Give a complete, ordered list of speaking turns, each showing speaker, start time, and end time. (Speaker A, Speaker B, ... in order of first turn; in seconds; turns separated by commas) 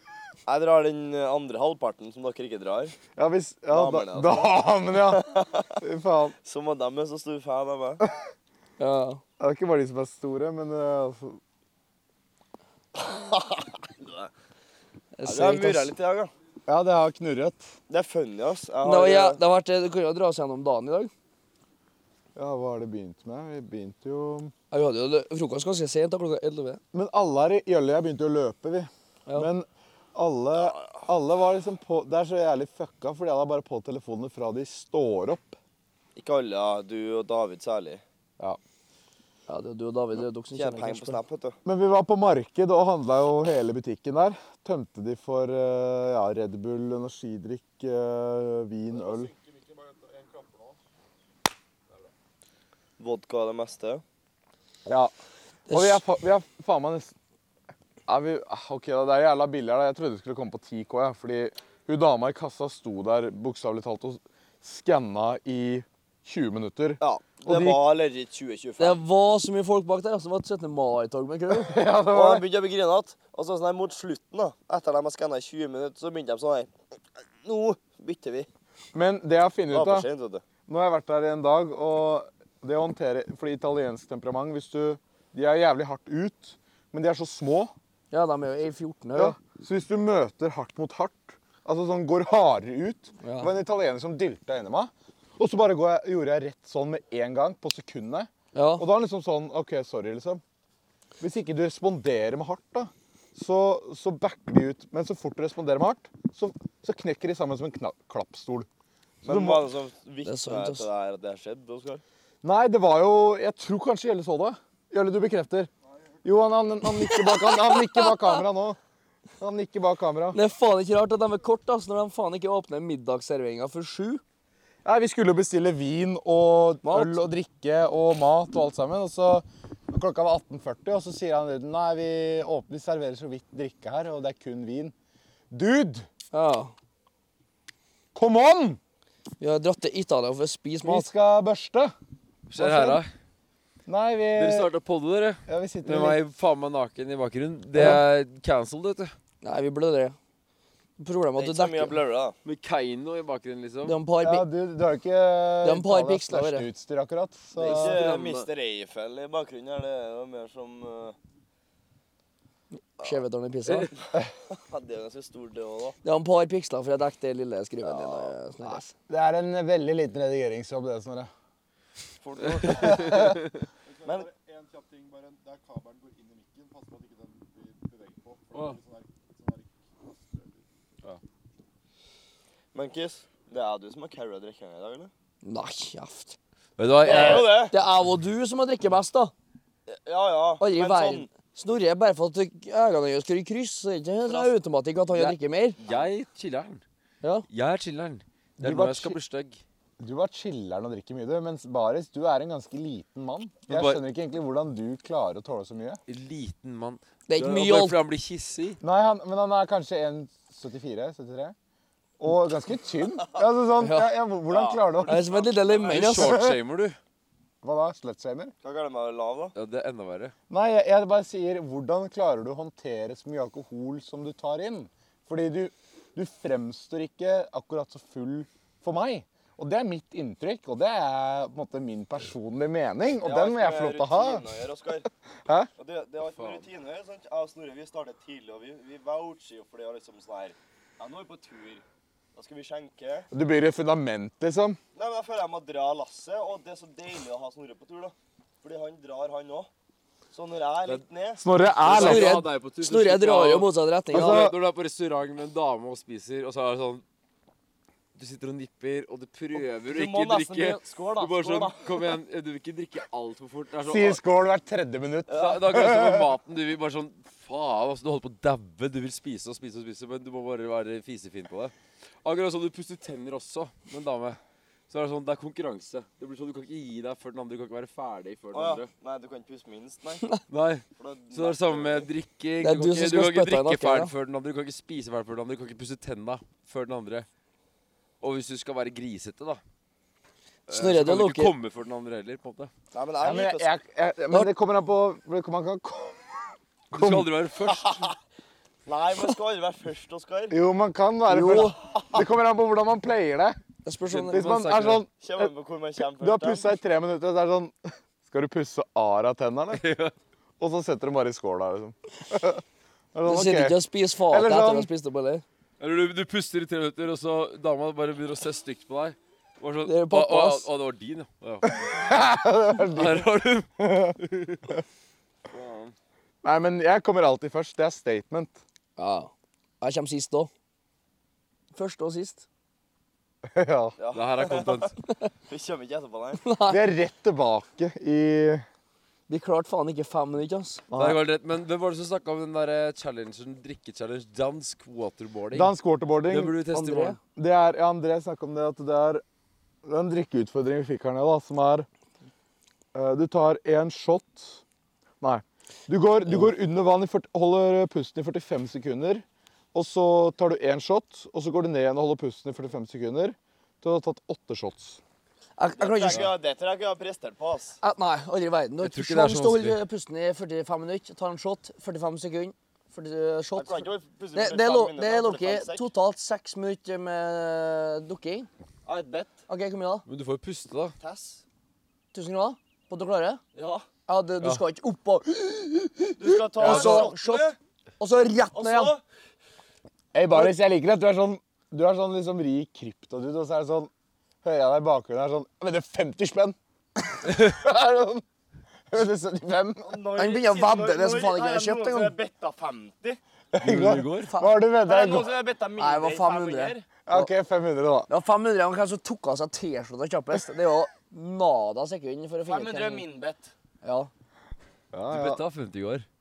Speaker A: 0.5-3.0, Speaker B: 3.1-6.3, Speaker A: 3.7-5.8, Speaker A: 6.4-8.0, Speaker C: 8.8-9.2, Speaker B: 9.4-11.4, Speaker A: 12.9-14.3, Speaker C: 15.2-15.9, Speaker A: 15.2-16.3, Speaker B: 16.7-17.7, Speaker A: 17.9-19.4, Speaker C: 18.8-21.1, Speaker B: 22.4-24.5, Speaker C: 24.7-26.8, Speaker B: 26.9-35.6, Speaker A: 36.1-38.0, Speaker C: 39.5-41.2, Speaker A: 40.5-41.6, Speaker B: 41.6-49.3, Speaker D: 48.9-50.8, Speaker A: 53.0-54.0, Speaker C: 55.7-56.0, Speaker B: 55.7-57.1, Speaker B: 58.1-67.8, Speaker A: 67.0-69.0, Speaker C: 68.8-71.8, Speaker B: 71.5-72.5, Speaker A: 72.1-76.7, Speaker A: 77.4-78.5, Speaker B: 78.9-80.1, Speaker A: 79.7-80.4, Speaker B: 80.7-87.7, Speaker C: 88.1-89.3, Speaker B: 89.1-100.4, Speaker C: 93.2-93.5, Speaker C: 98.5-98.9, Speaker B: 101.2-108.7, Speaker B: 109.2-109.7, Speaker A: 109.2-112.0, Speaker C: 110.2-110.9, Speaker B: 112.4-115.7, Speaker B: 116.2-118.8, Speaker C: 117.1-118.1, Speaker B: 119.4-120.4, Speaker C: 120.3-124.2, Speaker B: 124.8-134.9, Speaker C: 126.8-127.2, Speaker B: 135.5-136.1, Speaker C: 136.3-136.7, Speaker B: 138.1-138.8, Speaker C: 139.4-141.1, Speaker B: 140.8-141.9, Speaker E: 142.5-143.1, Speaker B: 142.6-143.0, Speaker B: 143.9-144.7, Speaker E: 144.3-149.1, Speaker B: 145.5-146.2, Speaker C: 147.8-148.0, Speaker C: 149.4-150.2, Speaker C: 151.0-151.9, Speaker A: 151.4-152.3, Speaker E: 152.4-154.0, Speaker C: 153.8-154.4, Speaker B: 154.2-158.0, Speaker C: 155.6-156.7, Speaker A: 157.6-161.2, Speaker E: 157.6-158.5, Speaker C: 163.0-163.9, Speaker A: 164.1-165.9, Speaker C: 166.0-168.9, Speaker A: 167.8-168.3, Speaker B: 168.6-171.3, Speaker A: 172.2-173.5, Speaker B: 172.7-173.3, Speaker E: 172.8-173.3, Speaker D: 173.8-180.6, Speaker A: 182.7-185.1, Speaker C: 185.4-186.4, Speaker E: 186.8-187.6, Speaker A: 187.0-187.7, Speaker C: 187.1-189.3, Speaker A: 189.9-191.3, Speaker C: 190.6-195.8, Speaker A: 194.3-194.5, Speaker E: 195.1-196.8, Speaker A: 195.8-196.1, Speaker E: 197.5-199.6, Speaker B: 198.6-199.2, Speaker B: 200.0-206.0, Speaker E: 203.7-204.0, Speaker E: 206.1-208.8, Speaker C: 207.3-208.0, Speaker B: 208.8-211.5, Speaker B: 212.2-215.3, Speaker C: 213.8-214.1, Speaker A: 214.5-216.1, Speaker C: 215.1-216.4, Speaker E: 215.8-217.0, Speaker B: 216.1-216.6, Speaker B: 217.6-218.5, Speaker A: 218.6-219.5, Speaker E: 219.5-220.3, Speaker B: 220.5-234.4, Speaker A: 233.2-235.1, Speaker A: 235.8-241.8, Speaker E: 236.3-236.7, Speaker A: 242.3-243.3, Speaker B: 243.3-244.8, Speaker A: 244.9-249.7, Speaker A: 250.3-251.4, Speaker B: 251.4-252.3, Speaker E: 251.8-257.0, Speaker C: 251.9-254.5, Speaker B: 254.1-254.6, Speaker E: 258.1-264.2, Speaker A: 259.6-262.1, Speaker B: 263.8-266.3, Speaker A: 265.3-265.8, Speaker E: 265.3-271.7, Speaker E: 272.2-274.4, Speaker E: 274.9-278.9, Speaker A: 278.5-280.2, Speaker E: 280.5-287.3, Speaker A: 281.0-282.1, Speaker C: 282.6-284.1, Speaker E: 288.2-289.6, Speaker E: 290.7-292.7, Speaker C: 290.7-291.5, Speaker A: 292.9-293.7, Speaker B: 293.2-296.4, Speaker B: 296.9-297.3, Speaker E: 296.9-298.0, Speaker A: 297.7-298.1, Speaker A: 298.9-300.6, Speaker B: 300.5-303.6, Speaker C: 301.3-301.8, Speaker C: 303.8-304.4, Speaker E: 304.1-305.0, Speaker B: 304.3-305.5, Speaker A: 305.2-306.6, Speaker B: 306.2-309.8, Speaker E: 309.7-310.1, Speaker B: 310.6-312.6, Speaker B: 313.1-314.9, Speaker C: 313.2-315.4, Speaker E: 315.8-322.0, Speaker C: 319.8-320.7, Speaker B: 321.9-324.1, Speaker E: 322.8-324.7, Speaker E: 325.5-325.9, Speaker B: 326.4-328.6, Speaker C: 329.0-330.5, Speaker C: 331.7-332.4, Speaker B: 333.4-333.9, Speaker A: 334.0-334.9, Speaker E: 334.1-334.9, Speaker A: 335.5-336.4, Speaker C: 336.4-336.8, Speaker B: 336.7-338.6, Speaker C: 339.3-340.8, Speaker B: 340.9-341.2, Speaker E: 340.9-345.7, Speaker B: 345.5-346.6, Speaker E: 346.3-347.2, Speaker C: 346.7-347.2, Speaker B: 347.4-349.2, Speaker B: 349.8-351.9, Speaker B: 352.9-354.6, Speaker B: 355.2-365.0, Speaker C: 365.6-366.3, Speaker A: 365.8-367.8, Speaker C: 367.8-378.5, Speaker E: 368.8-369.8, Speaker A: 373.6-375.9, Speaker A: 378.8-379.4, Speaker C: 379.5-380.0, Speaker E: 380.1-380.9, Speaker A: 381.0-381.4, Speaker C: 382.1-383.4, Speaker A: 383.5-383.9, Speaker C: 384.1-387.5, Speaker A: 386.2-387.6, Speaker B: 386.6-387.1, Speaker C: 388.0-388.9, Speaker A: 388.5-389.0, Speaker B: 390.1-393.9, Speaker B: 394.4-396.6, Speaker B: 397.2-398.2, Speaker B: 398.9-400.0, Speaker A: 399.8-403.2, Speaker C: 400.2-402.1, Speaker B: 403.5-405.3, Speaker E: 403.6-404.3, Speaker C: 404.3-404.5, Speaker A: 404.8-406.9, Speaker C: 405.8-407.3, Speaker B: 407.1-408.1, Speaker C: 408.1-413.0, Speaker A: 412.5-413.5, Speaker C: 413.8-414.1, Speaker B: 414.9-415.4, Speaker E: 415.1-416.0